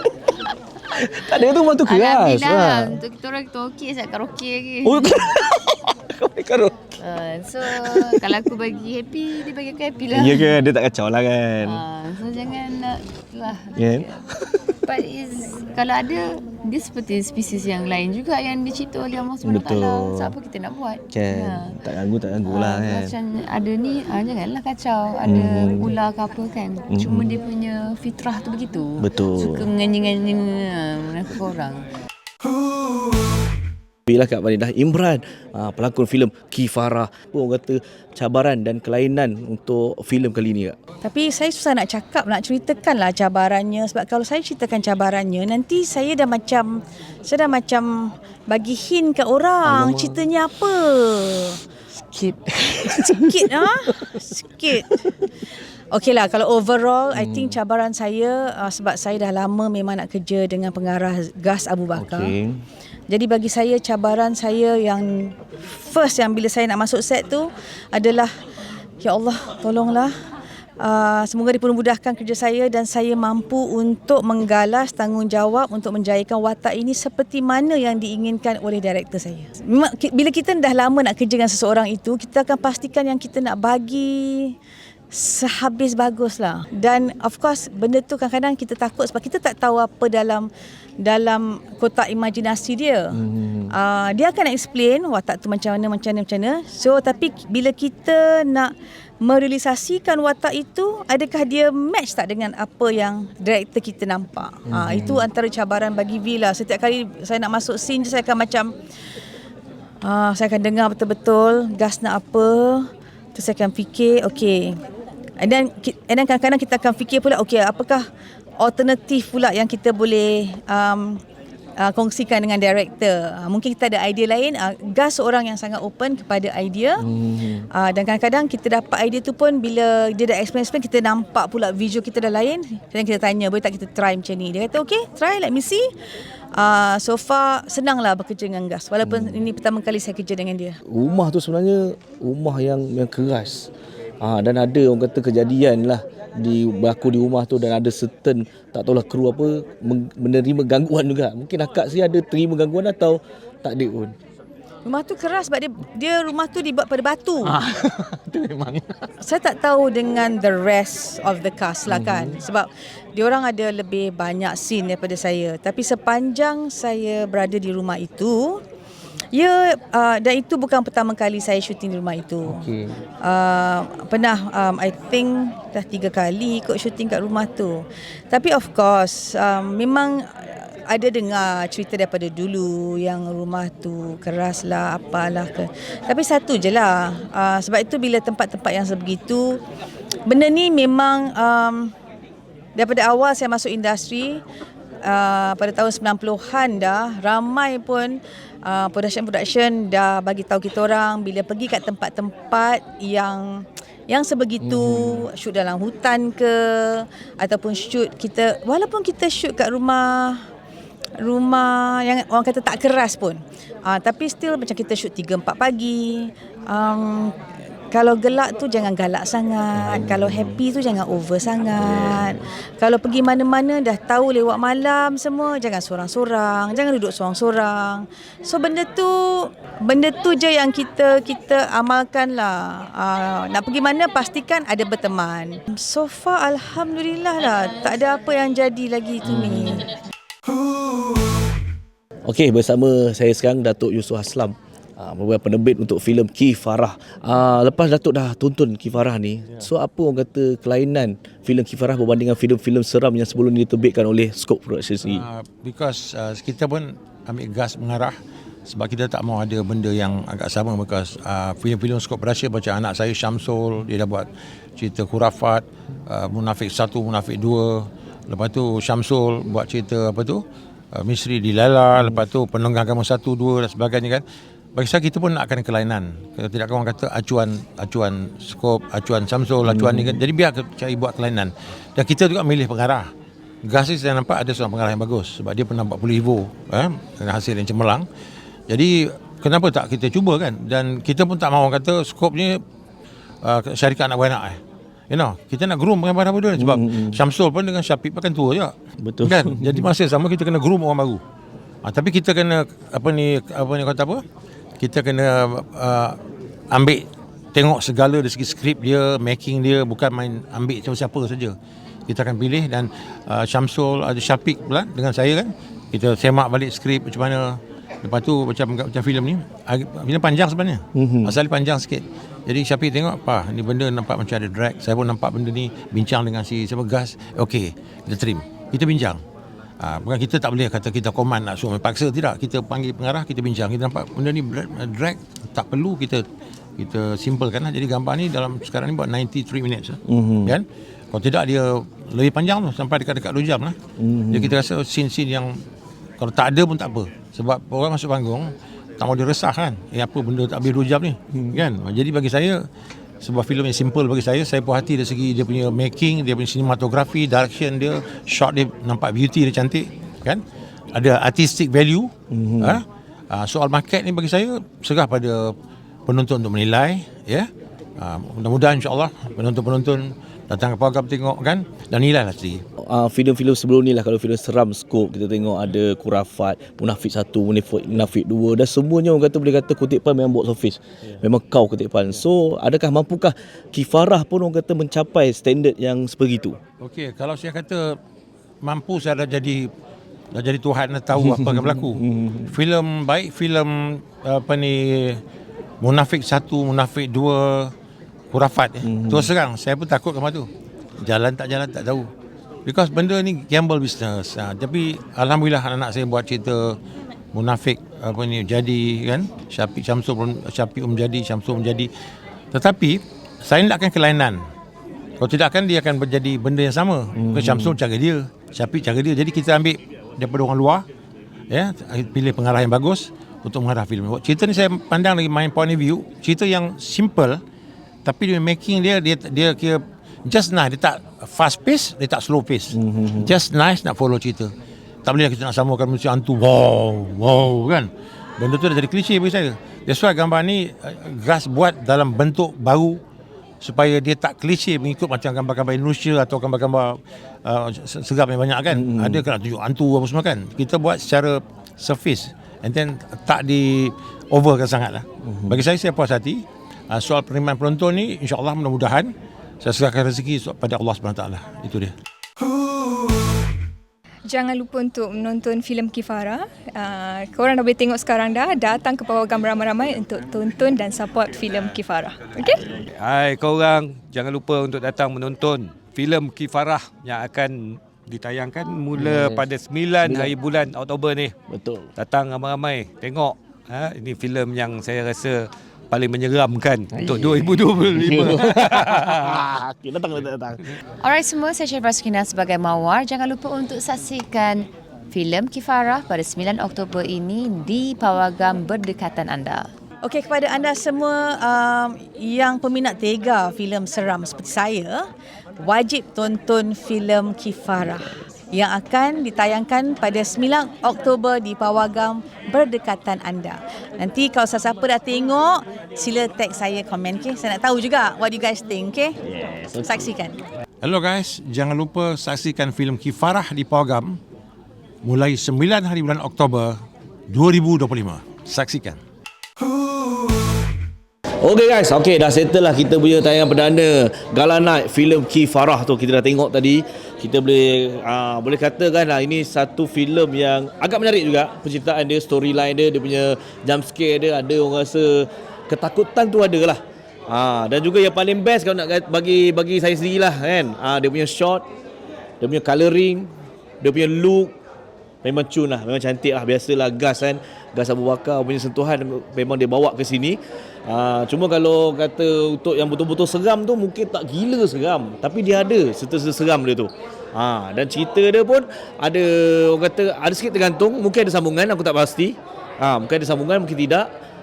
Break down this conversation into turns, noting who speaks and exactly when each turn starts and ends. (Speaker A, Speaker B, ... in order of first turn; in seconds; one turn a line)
Speaker A: 0.9-3.0
Speaker B: 1.4-5.2
Speaker A: 4.8-7.1
Speaker B: 7.0-10.6
Speaker A: 7.6-8.5
Speaker A: 10.1-11.8
Speaker B: 11.7-14.2
Speaker A: 13.7-14.6
Speaker B: 14.9-21.8
Speaker A: 19.4-20.4
Speaker A: 21.1-23.2
Speaker B: 22.5-31.9
Speaker A: 25.2-25.9
Speaker A: 26.9-27.4
Speaker A: 29.0-29.8
Speaker A: 34.1-40.8
Speaker C: 41.0-51.6
Speaker A: 49.6-50.3
Speaker A: 52.0-54.4
Speaker C: 53.1-55.0
Speaker A: 54.9-55.2
Speaker C: 55.9-62.3
Speaker A: 57.1-57.6
Speaker A: 62.0-62.6
Speaker C: 63.1-68.3
Speaker C: 69.0-70.1
Speaker C: 70.8-84.5
Speaker C: 85.1-90.5
Speaker C: 91.0-93.2
Speaker A: 93.2-93.7
Speaker C: 93.7-108.7
Speaker A: 104.7-105.2
Speaker C: 110.0-114.8
Speaker C: 115.4-118.0
Speaker C: 118.6-121.2
Speaker C: 121.8-127.0
Speaker A: 127.0-127.7
Speaker C: 127.8-135.9
Speaker C: 136.6-140.8
Speaker A: 139.0-139.4
Speaker A: 140.9-143.7
Speaker A: 144.2-154.2
Speaker C: 154.8-157.6
Speaker A: 157.4-159.1
Speaker C: 159.2-168.6
Speaker A: 161.9-162.4
Speaker C: 169.3-172.6
Speaker A: 172.5-173.0
Speaker C: 173.2-177.8
Speaker C: 178.3-189.6
Speaker C: 190.3-191.9
Speaker C: 192.8-194.4
Speaker C: 195.1-210.4
Speaker A: 204.6-205.3
Speaker C: 211.2-217.3
Speaker C: 217.9-239.9
Speaker A: 219.8-220.6
Speaker A: 221.8-222.4
Speaker A: 239.2-239.8
Speaker A: 242.3-255.2
Speaker D: 255.1-258.1
Speaker D: 258.7-270.4
Speaker D: 270.9-274.2
Speaker A: 272.0-272.2
Speaker D: 274.8-283.1
Speaker A: 279.7-280.2
Speaker D: 283.6-288.1
Speaker D: 288.7-292.6
Speaker D: 293.4-294.6
Speaker D: 295.1-301.2
Speaker A: 296.6-297.2
Speaker A: 299.0-299.9
Speaker D: 301.8-304.2
Speaker D: 304.8-306.2
Speaker D: 306.7-311.6
Speaker D: 312.1-329.2
Speaker A: 321.0-321.4
Speaker D: 329.8-336.2
Speaker D: 336.8-343.8
Speaker A: 340.1-340.6
Speaker A: 344.0-344.5
Speaker D: 344.3-345.5
Speaker D: 346.2-352.6
Speaker D: 353.2-360.4
Speaker D: 360.9-365.5
Speaker A: 362.3-362.8
Speaker D: 366.1-372.6
Speaker A: 372.9-386.6
Speaker D: 386.8-388.0
Speaker D: 388.6-389.7
Speaker D: 390.3-395.2
Speaker A: 391.1-392.6
Speaker D: 395.8-397.7
Speaker D: 398.3-400.5
Speaker A: 398.8-399.3
Speaker D: 401.0-402.1
Speaker D: 402.7-406.8
Speaker D: 407.3-411.9
Speaker D: 412.5-414.4
Speaker D: 415.2-420.9
Speaker A: 417.2-417.8
Speaker D: 421.5-427.4
Speaker D: 428.1-434.5
Speaker A: 432.7-433.3
Speaker D: 435.1-443.0
Speaker D: 443.6-461.9
Speaker A: 448.7-449.3
Speaker A: 455.3-455.6
Speaker E: 464.3-472.6
Speaker F: 472.5-481.3
Speaker A: 478.9-479.5
Speaker A: 480.0-480.3
Speaker A: 481.5-481.9
Speaker F: 482.0-489.4
Speaker A: 486.9-490.8
Speaker B: 491.0-499.7
Speaker C: 500.0-505.0
Speaker C: 505.6-520.4
Speaker A: 519.3-519.7
Speaker D: 520.8-524.2
Speaker D: 525.0-526.8
Speaker D: 527.3-529.0
Speaker A: 531.4-551.6
Speaker A: 552.4-553.3
Speaker A: 553.8-554.5
Speaker A: 555.2-574.1